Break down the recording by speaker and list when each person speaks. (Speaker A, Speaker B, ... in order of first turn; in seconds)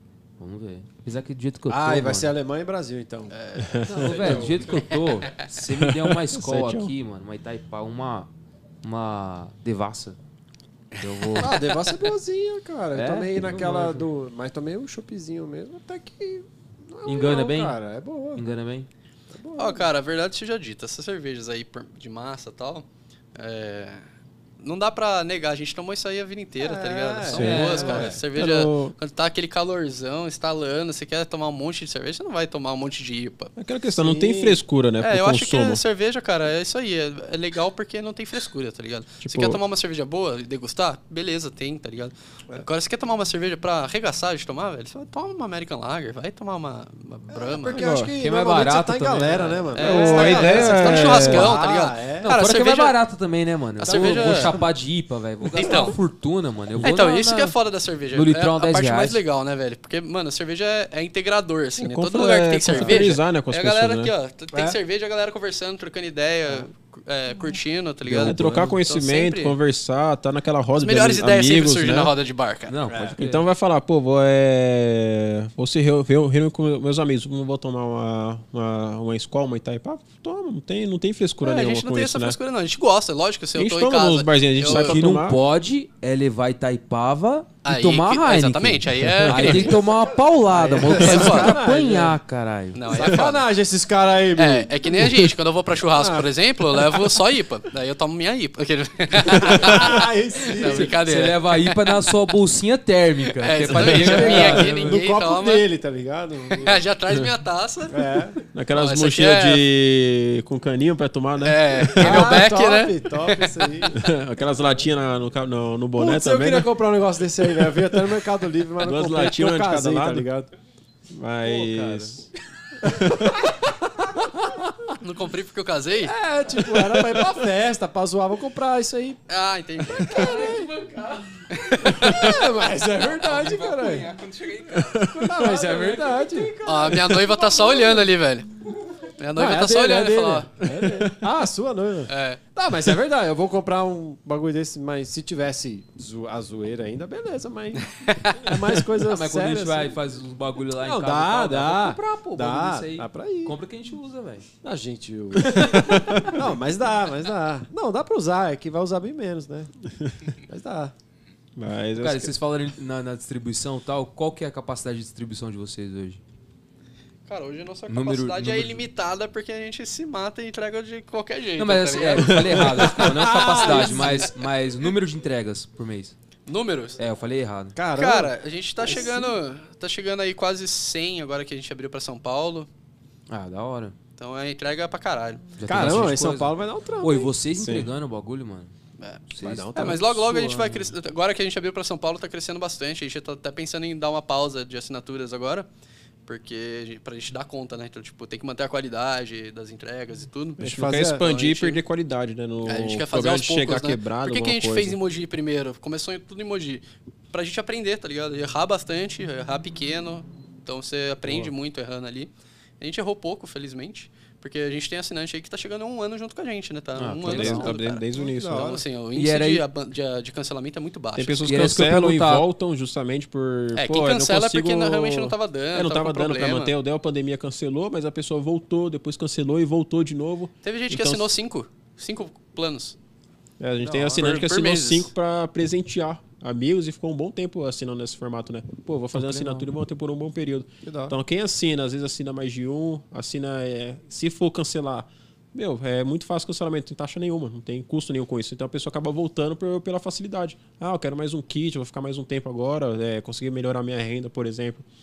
Speaker A: 0.4-2.3, 3.8-8.3, 8.8-10.2, 11.0-11.6, 12.9-14.1, 17.1-17.8, 18.3-18.9, 27.3-28.2, 48.2-49.7, 52.2-57.5, 58.1-59.2, 68.0-68.8, 72.7-73.5, 84.7-92.8, 100.6-105.0, 121.5-122.1, 135.4-136.0, 149.0-154.5, 155.6-156.3, 161.9-166.2, 167.9-168.8, 171.6-176.2, 177.0-177.8, 183.3-183.9, 185.6-188.7, 189.3-190.9, 217.0-217.7, 219.2-219.6, 221.4-222.5, 239.1-239.7
Speaker B: 1.7-3.4, 4.1-4.6, 11.4-18.4, 19.3-19.9, 26.6-28.2, 34.0-34.6, 47.3-52.3, 53.9-54.6, 62.7-63.0, 72.9-73.2, 89.4-92.2, 92.9-95.3, 95.9-97.1, 99.2-100.9, 103.7-106.8, 107.9-108.4, 112.0-114.0, 116.0-120.5, 122.9-124.7, 126.0-129.2, 129.8-130.7, 131.9-134.1, 135.0-138.1, 139.4-150.0, 150.8-153.6, 154.6-159.7, 160.4-160.9, 173.0-174.3, 177.8-179.3, 185.6-187.3, 189.4-190.6, 200.6-201.2, 218.2-218.8, 233.9-234.2, 240.8-241.2
Speaker C: 3.3-5.4, 11.4-12.0, 19.6-24.0, 24.6-33.5, 35.0-47.9, 49.7-53.0, 53.8-54.6, 55.5-56.0, 56.8-69.6, 70.8-72.7, 81.4-85.0, 87.6-89.8, 90.9-91.6, 92.8-93.5, 94.4-102.0, 103.4-105.7, 106.6-108.2, 108.7-109.6, 111.4-113.9, 125.0-126.1, 129.3-130.4, 131.5-132.4, 136.7-138.5, 139.2-140.5, 142.1-142.4, 148.0-148.6, 167.3-174.3, 176.5-177.0, 177.9-182.7, 184.2-185.6, 189.0-195.7, 196.3-201.8, 202.7-221.6, 223.8-226.7, 230.6-233.0, 234.2-235.1
Speaker D: 3.6-4.5, 5.7-6.9, 27.4-28.9, 33.6-35.8, 39.2-39.6, 47.7-48.1, 49.8-51.5, 61.8-64.1, 68.2-72.1, 73.2-82.4, 83.6-85.4, 108.5-112.5, 113.9-116.7, 118.8-120.3, 121.1-122.3, 122.8-123.4, 134.8-135.3, 140.7-141.2, 155.4-156.4, 161.6-162.3, 172.3-172.9, 187.6-187.9, 200.6-205.0, 217.2-218.7, 221.2-231.3, 233.6-254.9
Speaker E: 130.3-131.0, 133.2-136.2